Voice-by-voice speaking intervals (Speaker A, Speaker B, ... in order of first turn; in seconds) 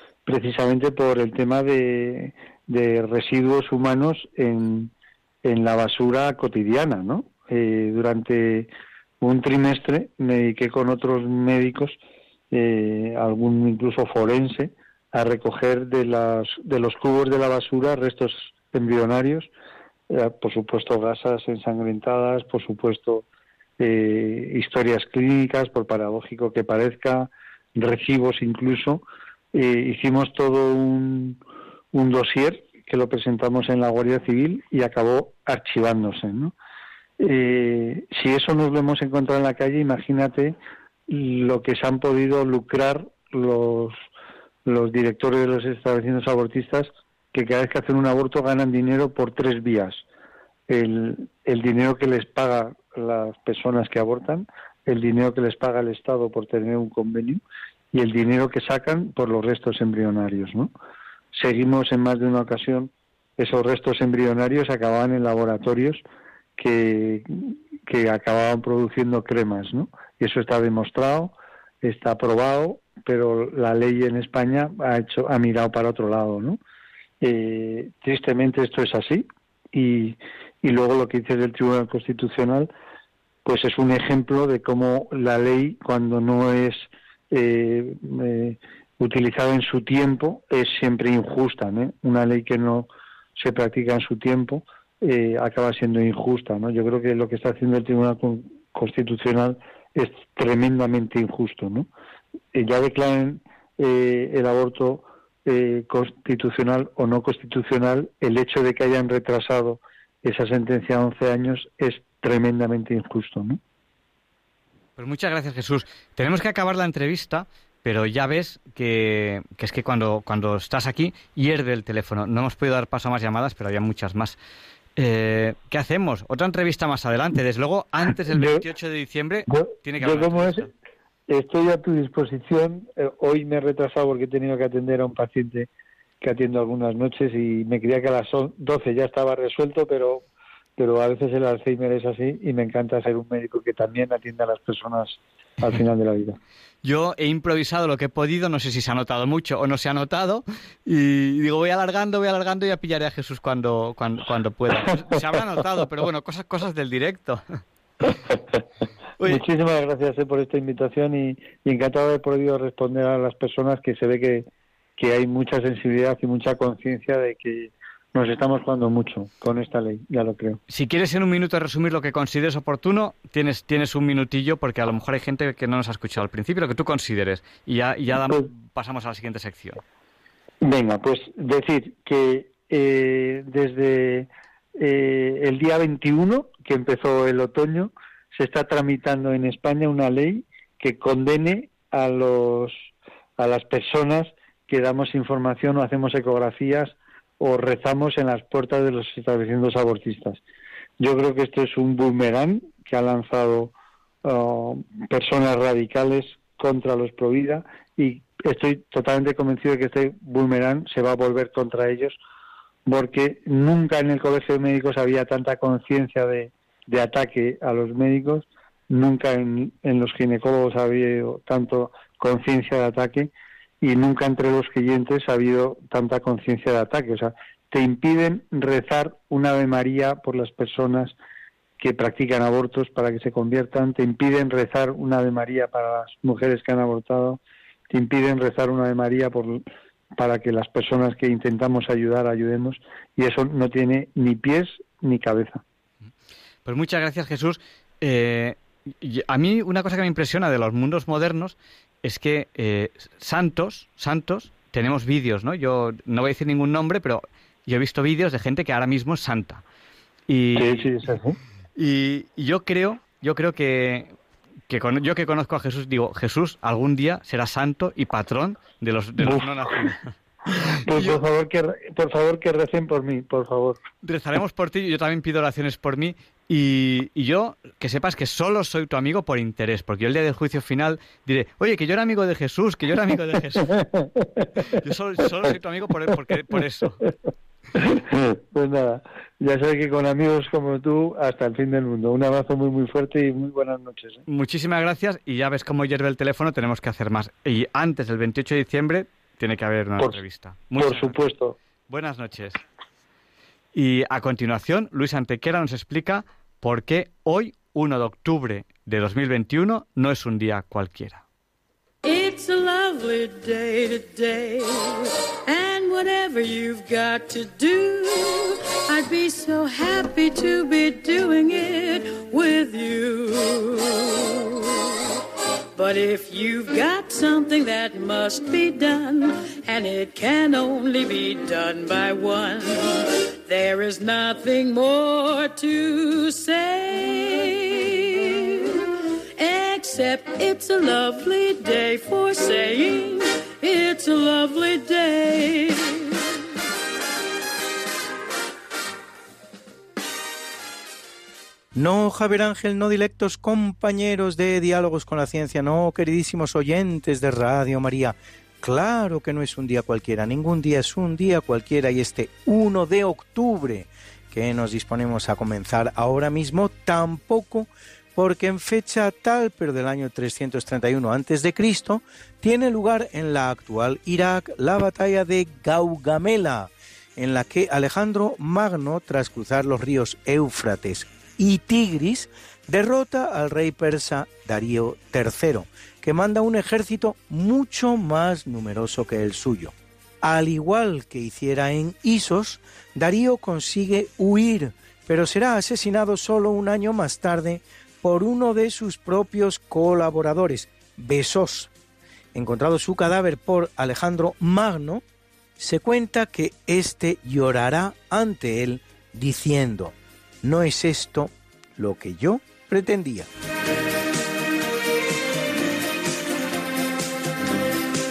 Speaker A: 0.2-4.9, 5.4-8.7, 9.2-11.9, 12.5-19.5, 20.1-23.2, 23.8-29.0, 29.5-31.4, 31.9-36.5, 37.2-40.5, 41.1-44.0, 44.6-50.0, 50.7-57.4, 57.9-60.7, 61.3-66.0, 66.6-76.6, 77.2-82.7, 83.4-101.9, 102.5-113.6, 128.3-128.6, 129.5-130.7, 131.3-135.7, 136.2-140.2, 140.8-146.4, 158.1-158.4, 159.2-164.4, 165.0-170.6, 178.2-178.5, 180.6-192.8, 193.4-200.4, 201.0-203.7, 204.2-212.2, 212.9-223.3, 223.8-231.2, 231.8-237.4, 237.9-239.6, 240.2-245.6, 260.6-261.4, 269.2-269.9, 270.9-273.8, 283.7-284.5, 287.8-294.2, 300.8-301.6
Speaker B: 115.0-124.4, 125.0-130.7, 146.8-157.4, 170.7-179.8, 246.6-259.6, 260.3-260.9, 261.8-264.1, 264.7-270.1, 270.9-271.2, 274.0-283.7, 284.7-287.0, 294.3-301.2, 301.9-302.6, 303.7-311.2
Speaker C: 312.0-324.7, 325.8-338.6, 339.4-346.1
Speaker D: 351.7-401.7, 402.3-405.0, 405.6-413.3